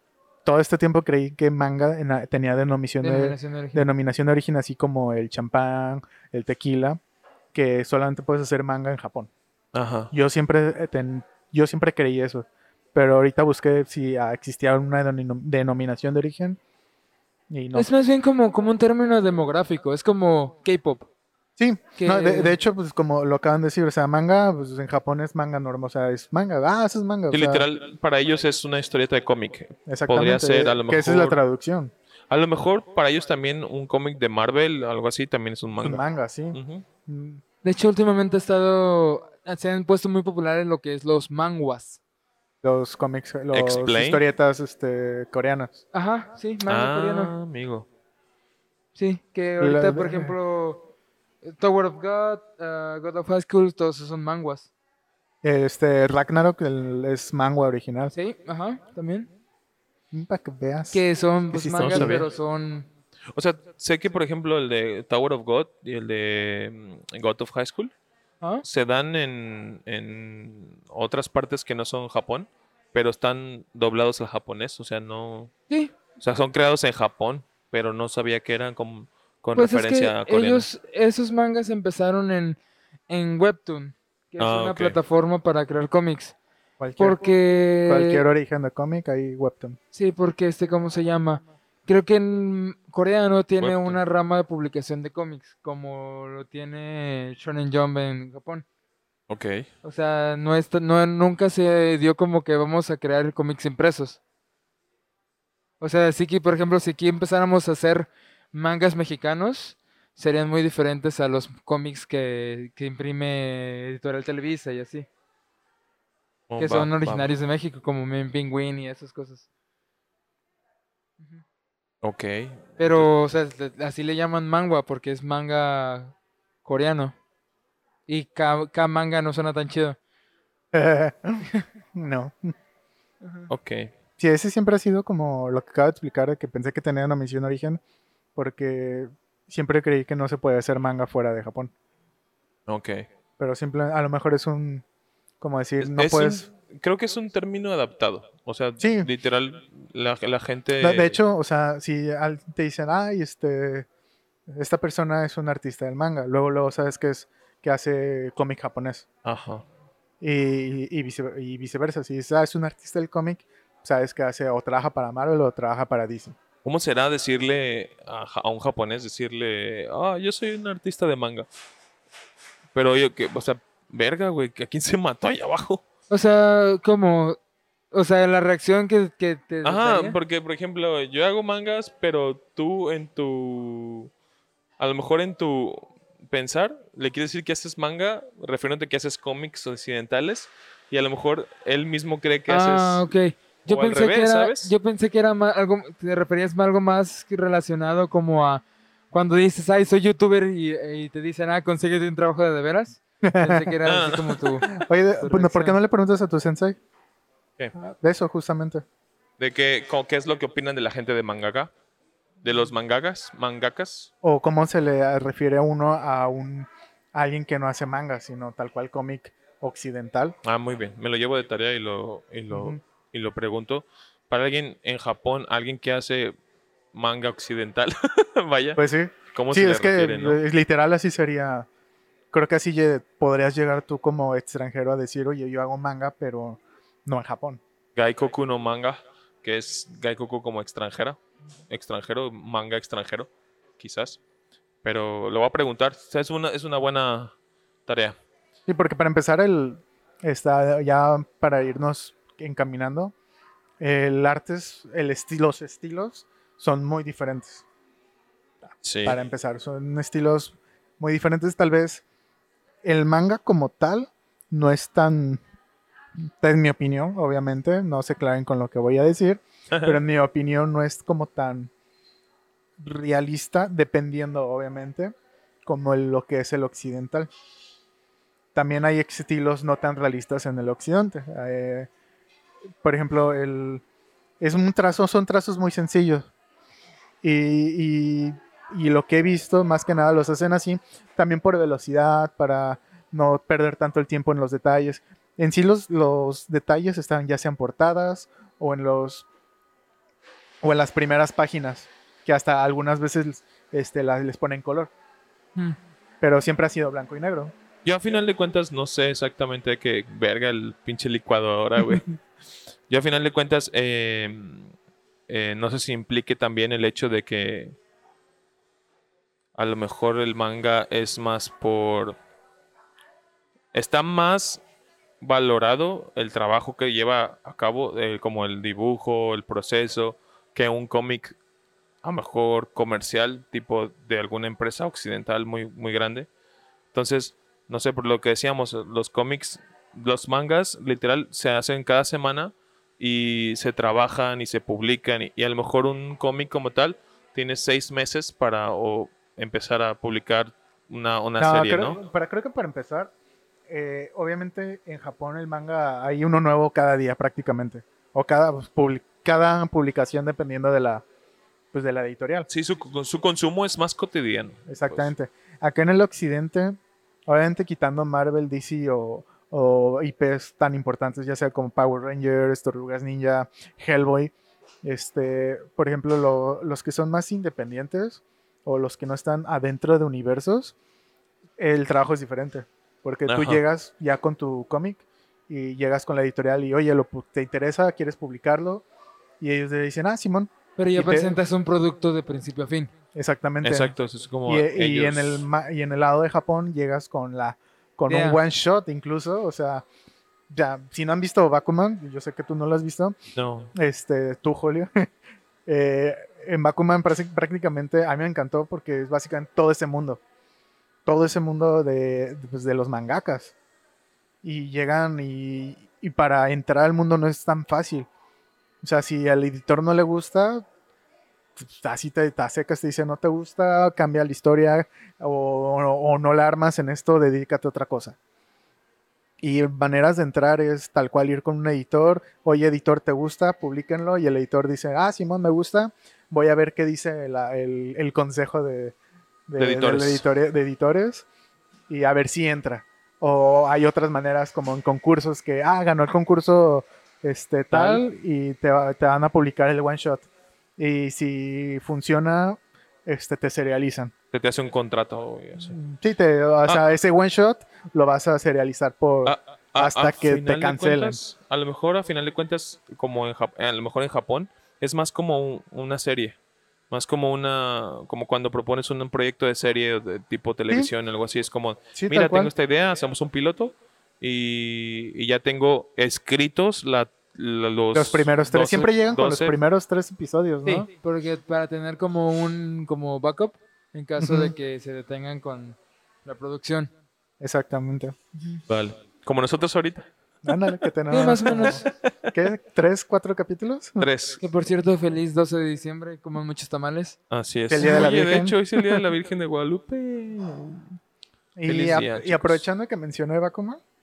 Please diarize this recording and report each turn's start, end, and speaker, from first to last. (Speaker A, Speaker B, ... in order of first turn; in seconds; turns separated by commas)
Speaker A: 0.5-7.0, Speaker B: 3.0-3.9, Speaker A: 7.5-9.3, Speaker C: 9.7-10.1, Speaker A: 10.1-16.6, Speaker A: 17.5-17.9, Speaker B: 17.8-21.1, Speaker A: 21.6-27.6, Speaker B: 22.0-22.6, Speaker C: 27.3-31.4, Speaker A: 29.9-31.9, Speaker C: 32.3-36.9, Speaker A: 35.8-37.4, Speaker B: 37.6-42.0, Speaker A: 42.6-45.8, Speaker C: 43.5-44.2, Speaker B: 45.9-47.3, Speaker C: 46.6-47.9, Speaker B: 49.0-50.9, Speaker A: 49.6-50.4, Speaker B: 51.4-54.7, Speaker A: 55.4-58.1, Speaker B: 58.1-59.3, Speaker A: 60.1-62.2, Speaker B: 60.9-62.9, Speaker C: 61.8-62.3, Speaker C: 63.3-67.9, Speaker C: 68.6-75.5, Speaker C: 76.2-80.7, Speaker B: 79.6-82.6, Speaker B: 83.1-86.3, Speaker C: 84.4-85.0, Speaker A: 86.8-87.2, Speaker B: 87.0-88.2, Speaker A: 87.8-89.8, Speaker B: 89.9-98.7, Speaker C: 93.6-94.0, Speaker C: 99.3-99.7, Speaker B: 99.8-104.2, Speaker B: 105.8-115.1, Speaker C: 116.5-117.3, Speaker B: 116.6-119.5, Speaker C: 122.0-123.1, Speaker B: 122.8-127.2, Speaker B: 128.1-130.0, Speaker A: 130.7-132.5, Speaker B: 133.2-133.5, Speaker C: 133.5-133.9, Speaker A: 134.2-137.8, Speaker A: 138.3-141.7, Speaker C: 142.7-143.1, Speaker A: 143.4-144.8, Speaker A: 145.4-146.4, Speaker C: 145.8-151.2, Speaker A: 148.8-149.1, Speaker A: 150.8-153.9, Speaker A: 154.5-159.1, Speaker C: 159.2-159.6, Speaker A: 160.2-166.4, Speaker C: 166.6-171.5, Speaker C: 172.7-175.8, Speaker B: 176.1-177.4, Speaker B: 177.9-180.2, Speaker C: 179.6-184.1, Speaker C: 184.8-193.1, Speaker B: 192.5-205.8, Speaker C: 193.7-194.7, Speaker A: 203.2-203.8, Speaker C: 203.8-204.7, Speaker A: 204.7-206.8, Speaker A: 207.8-208.8, Speaker C: 209.4-211.7, Speaker C: 212.4-214.1, Speaker A: 214.2-220.3, Speaker C: 220.4-226.3, Speaker A: 222.5-222.8, Speaker C: 226.9-228.8, Speaker A: 228.8-231.7, Speaker C: 229.3-230.4, Speaker A: 232.3-237.6, Speaker C: 238.0-241.2, Speaker C: 241.7-244.2, Speaker C: 244.8-247.3, Speaker C: 247.9-248.2, Speaker A: 248.7-253.1, Speaker A: 253.8-257.6, Speaker C: 258.8-259.2, Speaker A: 259.1-262.0, Speaker A: 262.8-265.4, Speaker A: 266.2-271.7, Speaker A: 272.8-275.1, Speaker A: 275.7-277.3, Speaker A: 278.6-281.9, Speaker A: 282.8-283.8, Speaker A: 284.4-286.3, Speaker A: 287.2-299.3, Speaker A: 300.6-304.9, Speaker A: 306.2-307.5, Speaker C: 307.9-312.2, Speaker C: 312.9-314.7, Speaker C: 315.3-317.8, Speaker C: 319.6-322.2, Speaker C: 323.7-324.6, Speaker C: 325.2-331.4, Speaker C: 332.0-336.3, Speaker C: 336.9-352.0, Speaker A: 351.4-353.1, Speaker A: 353.7-361.0, Speaker A: 361.7-362.5, Speaker C: 362.5-365.1, Speaker A: 364.7-374.3, Speaker A: 374.8-380.8, Speaker A: 381.6-388.9, Speaker C: 383.3-383.6, Speaker A: 389.4-391.4, Speaker B: 390.8-392.9, Speaker A: 393.1-393.9, Speaker C: 393.6-395.4, Speaker A: 394.5-399.9, Speaker B: 398.1-398.4, Speaker A: 400.5-403.2, Speaker C: 403.4-403.7, Speaker A: 403.7-405.1, Speaker A: 405.7-410.2, Speaker A: 411.1-413.5, Speaker A: 414.4-418.1, Speaker A: 418.8-420.7, Speaker A: 421.6-428.2, Speaker A: 429.4-438.9, Speaker A: 439.5-441.3, Speaker C: 439.6-440.2, Speaker A: 441.9-454.1, Speaker C: 447.7-448.0, Speaker C: 454.3-455.8, Speaker A: 455.6-461.2, Speaker C: 459.2-466.4, Speaker C: 466.9-479.6, Speaker A: 471.9-472.5, Speaker A: 477.9-480.9, Speaker B: 480.6-486.9, Speaker A: 484.2-484.5, Speaker A: 487.4-488.2, Speaker C: 488.7-490.1, Speaker A: 490.4-494.1, Speaker B: 491.1-491.8, Speaker C: 494.0-494.4, Speaker B: 494.4-497.2, Speaker C: 497.3-500.9, Speaker A: 497.7-499.0, Speaker A: 501.6-503.8, Speaker C: 501.7-502.6